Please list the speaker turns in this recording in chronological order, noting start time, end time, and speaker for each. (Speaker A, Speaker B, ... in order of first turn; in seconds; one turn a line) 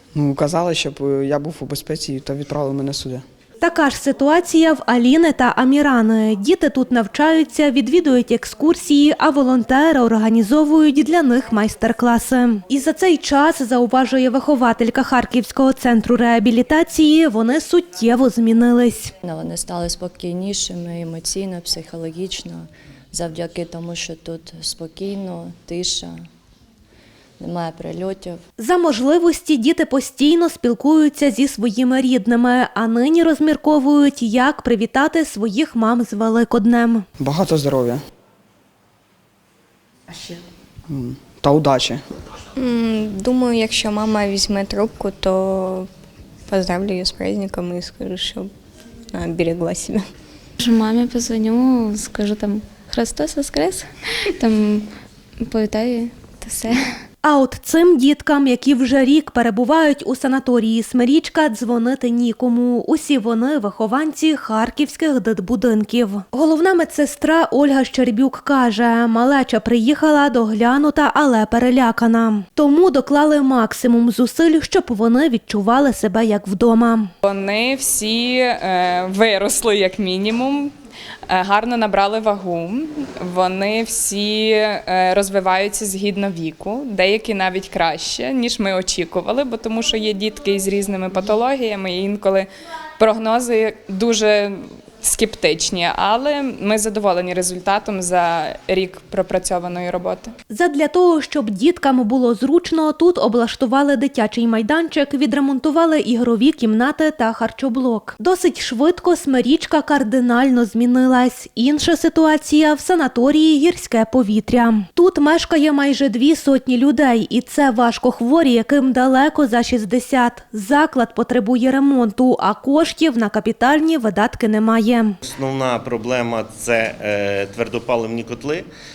Speaker A: 0.1-3.2
Speaker B: 3.6-19.1
Speaker C: 19.2-26.2
Speaker C: 27.4-28.4
Speaker B: 28.6-37.0
Speaker A: 37.2-38.0
Speaker A: 40.9-42.0
Speaker D: 42.6-43.8
Speaker D: 44.4-45.7
Speaker D: 48.0-48.4
Speaker D: 49.3-49.8
Speaker E: 50.6-53.8
Speaker E: 54.4-54.9
Speaker E: 55.4-56.8
Speaker B: 57.2-77.1
Speaker F: 77.2-80.7
Speaker F: 81.3-92.5
Speaker F: 93.0-100.3
Speaker B: 100.5-125.2
Speaker G: 125.2-128.7